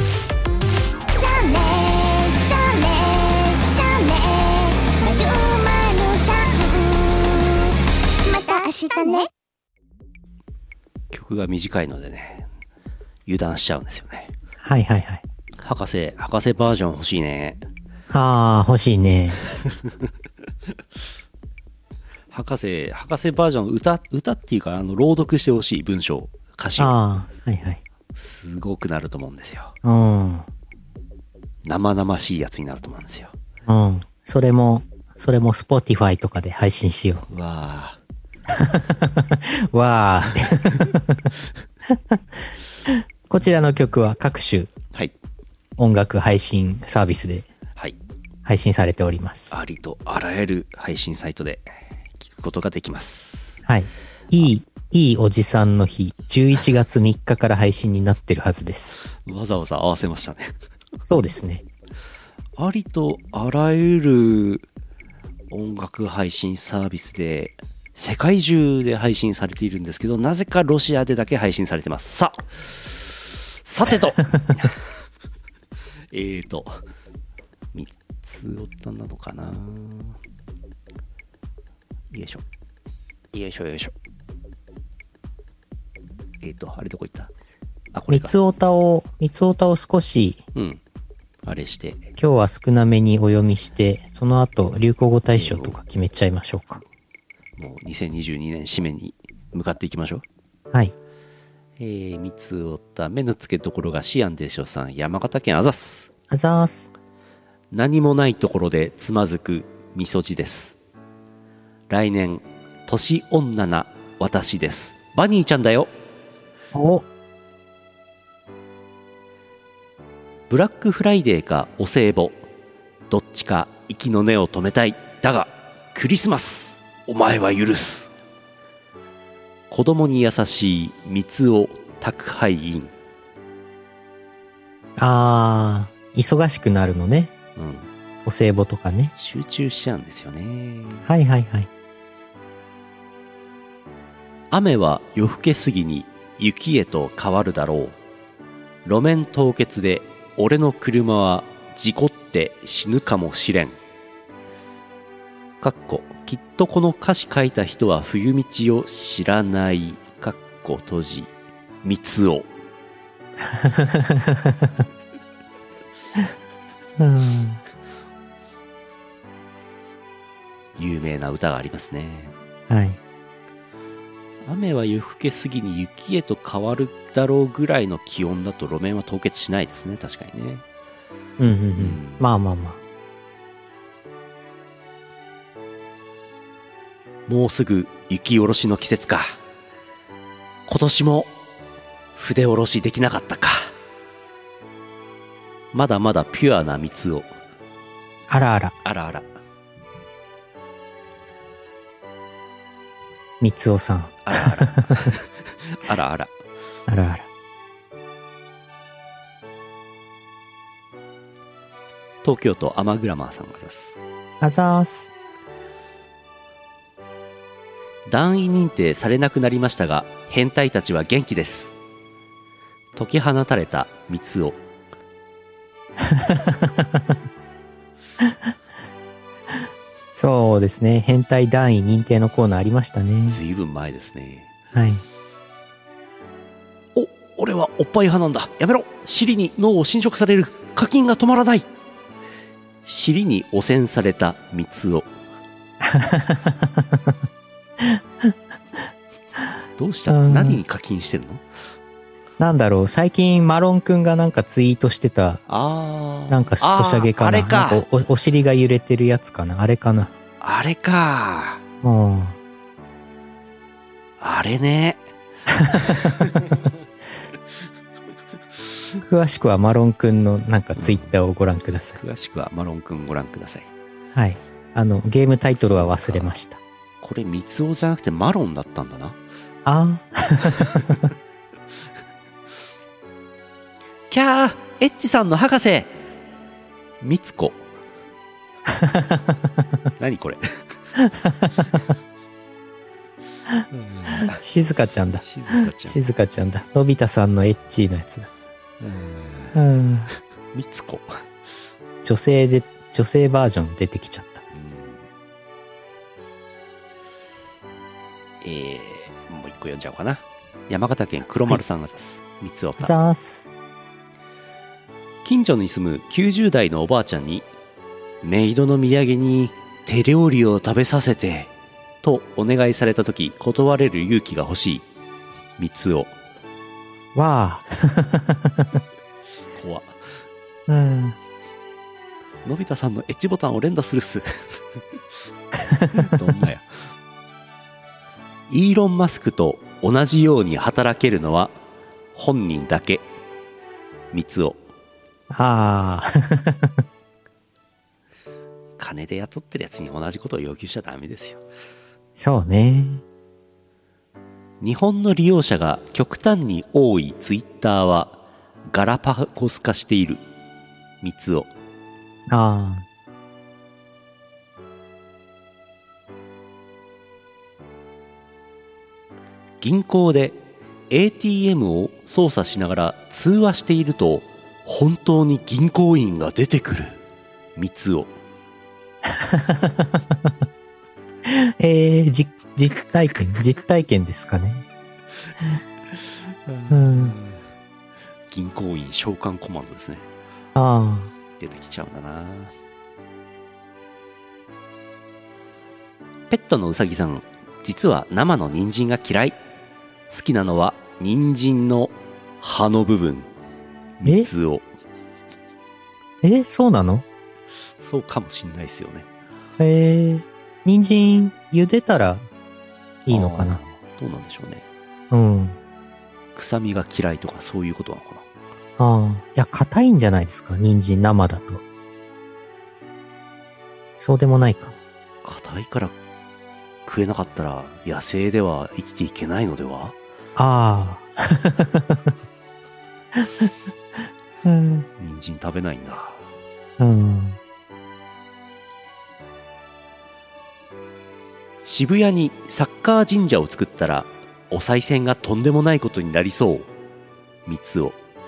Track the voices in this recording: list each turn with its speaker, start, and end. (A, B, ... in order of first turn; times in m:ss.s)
0:01.2-0:09.3 A
0:11.1-0:12.5 B
0:13.3-0:14.3 B
0:14.6-0:15.2 C
0:15.6-0:17.7 B
0:18.1-0:19.4 C
0:19.6-0:19.9 B
0:22.3-0:27.0 B
0:26.8-0:27.8 C
0:28.1-0:29.8 B
0:29.8-0:30.5 C
0:31.6-0:33.3 B
0:33.7-0:37.2 C
0:37.3-0:38.0 B
0:38.5-0:41.3 C
0:42.9-0:44.7 C
0:45.8-0:47.5 C
0:48.4-0:49.6 C
0:49.5-0:53.6 B
0:53.7-0:59.0 C
0:59.2-1:00.6 B
1:01.1-1:01.6 C
1:02.6-1:04.7 B
1:05.5-1:14.9 B
1:16.1-1:16.8 B
1:17.7-1:20.2 B
1:22.1-1:22.4 B
1:23.3-1:23.9 B
1:26.4-1:27.3 B
1:27.9-1:28.4 B
1:28.1-1:30.4 C
1:30.6-1:30.8 B
1:31.4-1:32.1 B
1:32.2-1:36.8 C
1:35.3-1:35.8 B
1:37.6-1:40.2 B
1:41.8-1:46.1 B
1:46.3-1:46.9 C
1:47.7-1:50.8 B
1:51.9-1:55.9 B
1:56.7-1:57.0 C
2:00.5-2:02.4 B
2:03.1-2:08.1 B
2:09.7-2:12.9 B
2:15.0-2:17.3 C
2:17.6-2:17.9 B
2:18.3-2:19.1 C
2:19.2-2:21.1 B
2:21.1-2:21.7 C
2:24.5-2:28.0 B
2:28.8-2:33.8 B
2:35.6-2:42.5 B
2:43.6-2:44.7 C
2:47.0-2:47.6 C
2:50.8-2:52.4 B
2:52.7-2:53.0 C
2:54.4-3:00.6 B
3:01.4-3:02.8 C
3:01.8-3:02.2 B
3:07.3-3:09.4 B
3:10.7-3:11.4 B
3:12.2-3:13.7 B
3:15.7-3:17.4 B
3:18.3-3:18.7 C
3:18.8-3:19.3 B
3:23.4-3:25.1 C
3:24.3-3:26.3 B
3:26.9-3:27.3 C
3:32.2-3:34.0 B
3:34.4-3:35.1 C
3:38.1-3:41.8 B
3:43.0-3:44.6 B
3:46.1-3:47.1 C
3:50.2-3:53.4 C
3:53.3-3:54.5 B
3:54.7-3:55.0 C
3:57.0-4:01.7 B
4:02.8-4:05.1 B
4:05.9-4:06.8 C
4:09.8-4:11.4 B
4:10.1-4:10.6 C
4:12.4-4:15.4 C
4:15.5-4:17.8 B
4:16.3-4:20.1 C
4:20.4-4:21.6 B
4:21.8-4:22.4 C
4:24.2-4:25.0 B
4:25.6-4:26.0 C
4:25.8-4:26.5 B
4:29.0-4:32.0 C
4:30.8-4:31.2 B
4:32.0-4:33.7 B
4:34.1-4:36.6 C
4:35.6-4:36.3 B
4:37.0-4:39.2 B
4:39.7-4:41.0 C
4:44.1-4:45.9 B
4:47.0-4:47.6 B
4:48.7-4:49.4 C
4:50.0-4:50.8 B
4:51.0-4:51.6 C
4:53.7-4:54.4 B
4:54.4-4:55.2 C
4:55.2-4:56.0 B
4:55.8-4:58.3 C
4:58.8-4:59.6 B
4:59.6-5:00.1 C
5:00.5-5:01.2 B
5:02.0-5:04.4 C
5:04.5-5:05.1 B
5:08.4-5:12.9 B
5:12.8-5:13.5 C
5:15.2-5:17.5 B
5:18.2-5:24.9 B
5:25.6-5:26.2 B
5:27.2-5:28.7 C
5:29.6-5:30.2 B
5:30.7-5:31.2 C
5:32.4-5:34.8 B
5:35.7-5:36.0 C
5:35.9-5:36.9 B
5:38.5-5:41.6 B
5:42.1-5:43.1 B
5:44.1-5:44.6 B
5:45.3-5:46.8 C
5:48.8-5:51.4 B
5:52.2-5:53.0 C
5:54.6-6:00.2 B
6:01.0-6:01.5 B
6:02.3-6:02.8 C
6:09.6-6:17.0 B
6:17.6-6:18.1 B
6:19.1-6:20.0 C
6:21.3-6:24.6 C
6:26.5-6:27.4 B
6:26.7-6:27.2 C
6:28.3-6:30.1 B
6:30.6-6:31.1 C
6:31.4-6:32.5 B
6:36.3-6:39.4 B
6:40.1-6:43.3 B
6:44.0-6:44.7 B
6:46.2-6:47.0 C
6:47.8-6:49.1 B
6:49.6-6:52.3 C
6:53.1-6:53.6 C
6:53.1-6:54.7 B
6:55.1-6:55.6 C
6:56.4-6:58.2 B
6:58.8-7:01.6 C
7:04.0-7:04.8 C
7:05.2-7:06.0 B
7:06.8-7:10.0 B
7:10.4-7:12.0 C
7:13.2-7:13.5 C
7:14.4-7:14.9 C
7:15.0-7:16.3 B
7:16.8-7:17.4 C
7:21.6-7:26.7 B
7:27.5-7:28.0 B